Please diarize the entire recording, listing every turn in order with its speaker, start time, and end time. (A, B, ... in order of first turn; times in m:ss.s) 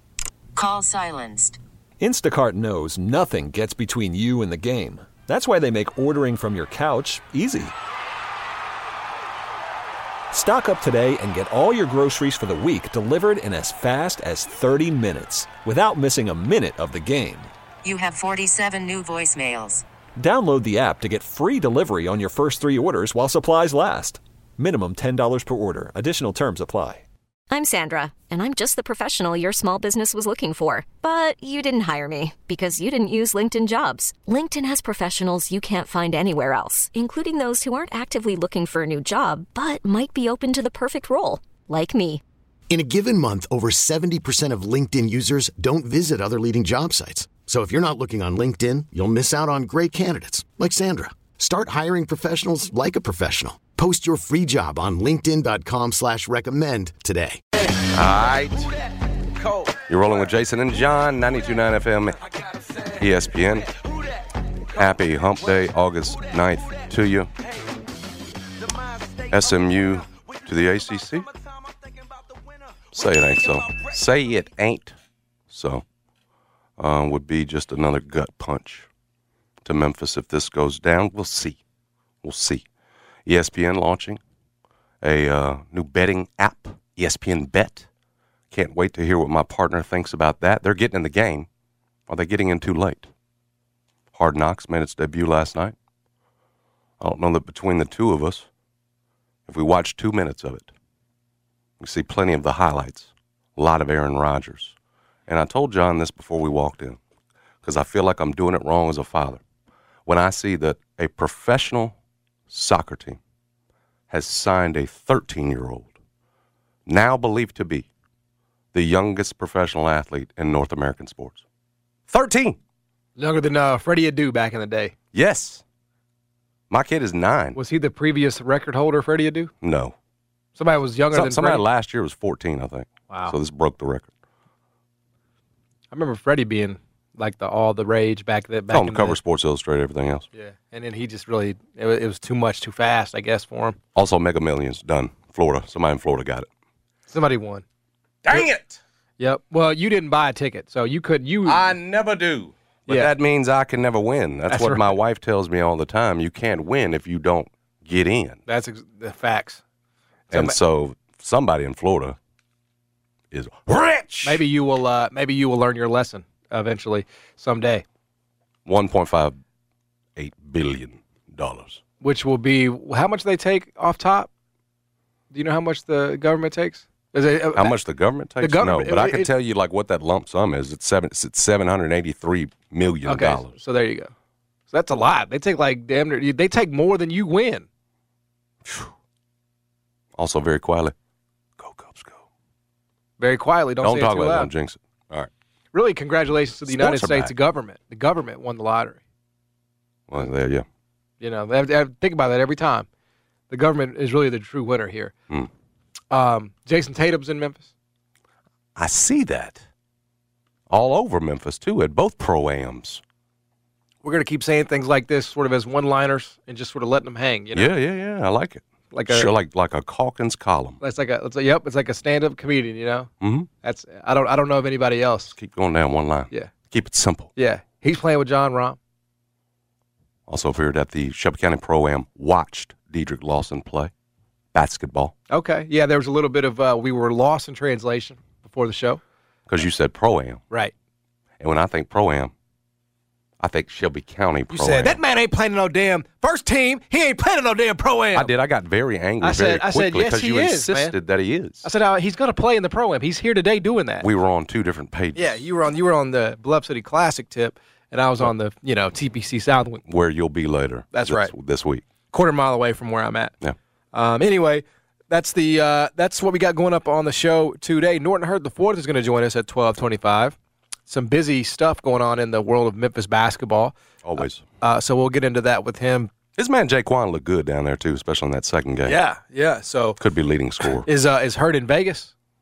0:00.5-0:01.6 A
0:02.0-0:07.7 B
0:10.3-0:17.5 B
0:17.8-0:19.8 A
0:20.2-0:27.0 B
0:27.5-0:42.2 C
0:42.7-0:57.4 D
0:57.8-0:58.7 E
0:59.6-1:02.3 E
1:02.8-1:03.7 E
1:04.6-1:07.3 E
1:09.2-1:11.3 E
1:12.9-1:14.9 E
1:15.5-1:15.8 E
1:16.8-1:18.9 E
1:19.6-1:21.6 E
1:22.2-1:22.6 E
1:23.2-1:24.2 E
1:25.0-1:27.8 E
1:28.5-1:31.5 E
1:32.1-1:33.1 E
1:34.1-1:35.7 E
1:37.0-1:38.4 E
1:39.5-1:40.7 E
1:41.8-1:44.7 E
1:45.3-1:47.0 E
1:47.6-1:49.4 E
1:50.0-1:51.9 E
1:52.5-1:53.2 E
1:54.1-1:55.9 E
1:56.9-1:57.9 E
1:58.7-2:01.4 E
2:02.1-2:02.6 E
2:03.2-2:04.9 F
2:05.1-2:05.6 E
2:06.7-2:07.6 E
2:07.5-2:09.5 F
2:09.6-2:09.9 E
2:10.6-2:11.6 F
2:11.1-2:14.1 E
2:13.1-2:13.3 F
2:15.9-2:19.2 F
2:18.7-2:20.3 E
2:20.3-2:23.8 F
2:23.9-2:26.5 E
2:27.1-2:27.6 F
2:28.2-2:28.8 E
2:29.2-2:31.7 F
2:31.4-2:38.4 E
2:34.5-2:34.9 F
2:38.5-2:39.6 F
2:40.3-2:40.6 F
2:40.3-2:42.2 E
2:43.3-2:44.4 E
2:44.2-2:47.8 F
2:48.6-2:49.4 E
2:50.2-2:51.8 E
2:52.0-2:54.3 F
2:55.3-2:57.7 F
2:57.6-3:03.5 E
2:58.4-2:59.3 F
3:03.0-3:04.1 F
3:04.7-3:07.6 F
3:08.6-3:08.9 E
3:10.2-3:10.9 E
3:11.6-3:12.2 E
3:13.2-3:14.5 F
3:13.8-3:15.3 E
3:15.7-3:19.0 F
3:16.7-3:17.3 E
3:20.1-3:20.6 E
3:21.2-3:22.9 F
3:23.5-3:25.1 F
3:26.1-3:27.7 F
3:28.8-3:29.6 E
3:30.7-3:33.0 E
3:34.0-3:37.7 F
3:37.5-3:40.8 E
3:38.9-3:39.3 F
3:40.8-3:43.1 F
3:43.2-3:43.5 E
3:43.6-3:45.3 F
3:45.3-3:47.3 E
3:47.4-3:48.8 F
3:50.3-3:53.9 E
3:54.5-3:55.1 E
3:55.3-3:59.0 F
3:59.5-4:00.4 E
4:01.4-4:02.3 E
4:03.4-4:05.0 E
4:04.5-4:08.3 F
4:08.1-4:11.7 E
4:09.2-4:10.9 F
4:11.6-4:14.0 F
4:14.0-4:15.4 E
4:15.2-4:19.8 F
4:19.9-4:21.8 E
4:20.9-4:21.3 F
4:22.1-4:23.3 F
4:23.9-4:30.3 F
4:30.9-4:33.7 F
4:34.0-4:34.4 E
4:34.6-4:36.1 F
4:36.4-4:39.0 E
4:38.8-4:40.0 F
4:40.0-4:40.9 E
4:40.8-4:42.1 F